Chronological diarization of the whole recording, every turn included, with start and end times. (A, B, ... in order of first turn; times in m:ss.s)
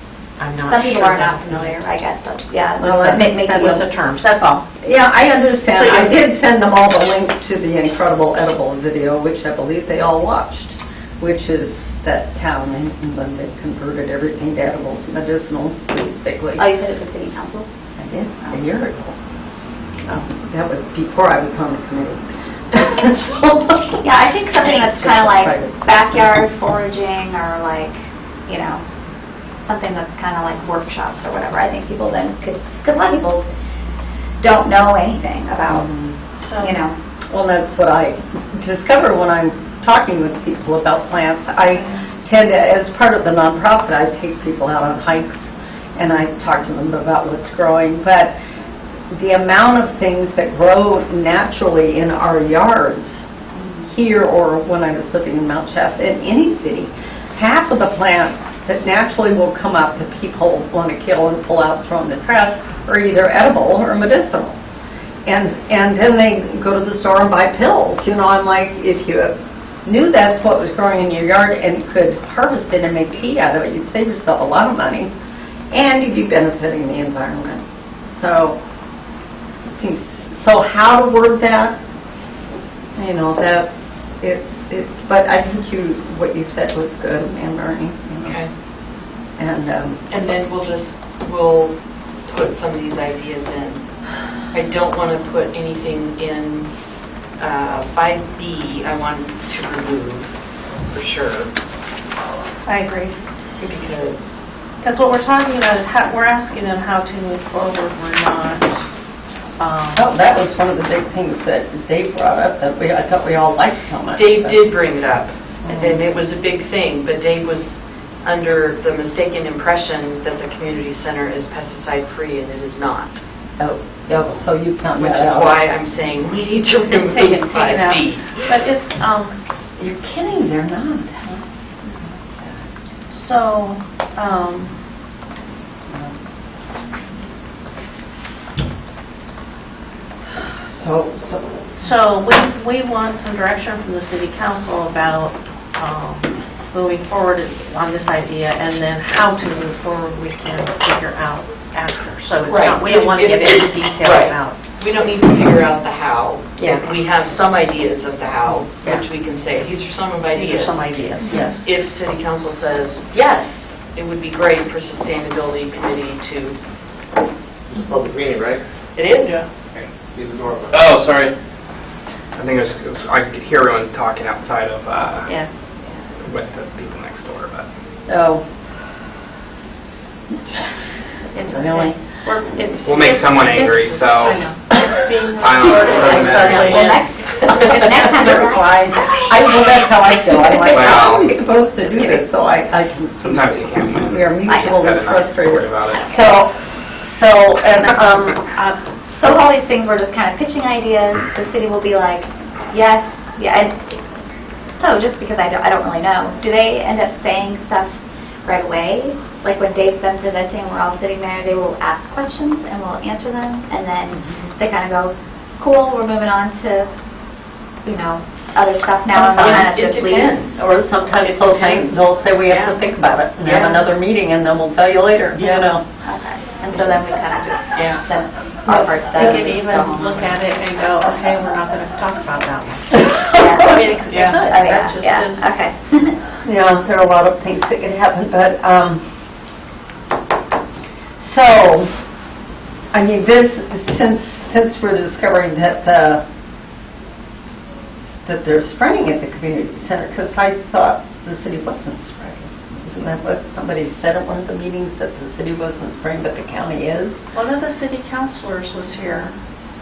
0:00.4-0:01.8 A
0:00.6-0:03.7 B
0:02.8-0:03.8 C
0:03.4-0:04.6 A
0:04.8-0:16.7 C
0:05.7-0:06.1 A
0:16.6-0:17.7 B
0:18.0-0:19.1 C
0:20.0-0:26.4 C
0:24.0-0:28.8 B
0:29.6-0:33.5 B
0:34.4-0:35.9 B
0:35.7-0:36.2 C
0:36.4-0:36.8 A
0:36.6-0:36.9 B
0:37.3-0:48.4 C
0:41.7-0:42.1 A
0:49.1-0:53.2 C
0:53.8-1:04.6 C
1:05.2-1:15.1 C
1:15.7-1:18.6 C
1:19.7-1:21.8 C
1:23.0-1:28.6 C
1:28.2-1:28.5 D
1:29.4-1:30.0 C
1:30.1-1:34.0 D
1:34.5-1:36.7 D
1:37.4-1:40.3 D
1:40.9-1:41.5 D
1:42.6-1:43.2 A
1:43.6-1:44.5 D
1:44.8-1:48.8 A
1:49.6-1:50.1 A
1:49.9-1:54.6 C
1:54.1-2:03.2 D
1:55.6-1:56.0 C
1:55.7-1:56.0 A
2:03.6-2:05.6 C
2:05.0-2:08.5 D
2:06.9-2:09.4 A
2:09.8-2:11.4 C
2:12.0-2:12.7 C
2:13.1-2:14.8 A
2:15.9-2:16.1 C
2:20.6-2:21.9 C
2:21.8-2:34.6 A
2:32.4-2:41.0 D
2:40.3-2:41.7 A
2:41.6-2:46.6 D
2:43.1-2:43.7 A
2:47.7-2:48.6 E
2:48.9-2:49.4 D
2:50.1-2:51.3 E
2:52.3-2:55.4 F
2:56.2-2:57.7 F
2:58.1-2:58.4 C
3:01.3-3:07.1 A
3:01.4-3:02.0 C
3:02.8-3:04.5 F
3:05.4-3:06.9 F
3:06.0-3:09.3 B
3:07.4-3:18.7 C
3:10.7-3:11.4 F
3:13.2-3:16.1 F
3:14.4-3:15.3 B
3:19.1-3:24.0 B
3:24.6-3:27.9 B
3:28.4-3:36.9 B
3:34.2-3:34.5 D
3:37.8-3:40.4 B
3:39.1-3:40.7 D
3:39.2-3:39.7 C
3:40.5-3:45.8 C
3:41.2-3:42.8 D
3:43.4-3:43.8 D
3:45.3-3:45.7 A
3:46.0-3:50.3 B
3:46.7-3:47.0 C
3:47.8-3:48.0 D
3:48.6-3:49.5 C
3:49.1-3:55.6 A
3:53.3-3:56.2 B
3:54.1-3:54.4 D
3:56.4-3:59.0 C
4:01.2-4:02.0 C
4:02.9-4:06.2 C
4:08.2-4:17.2 C
4:17.3-4:19.4 A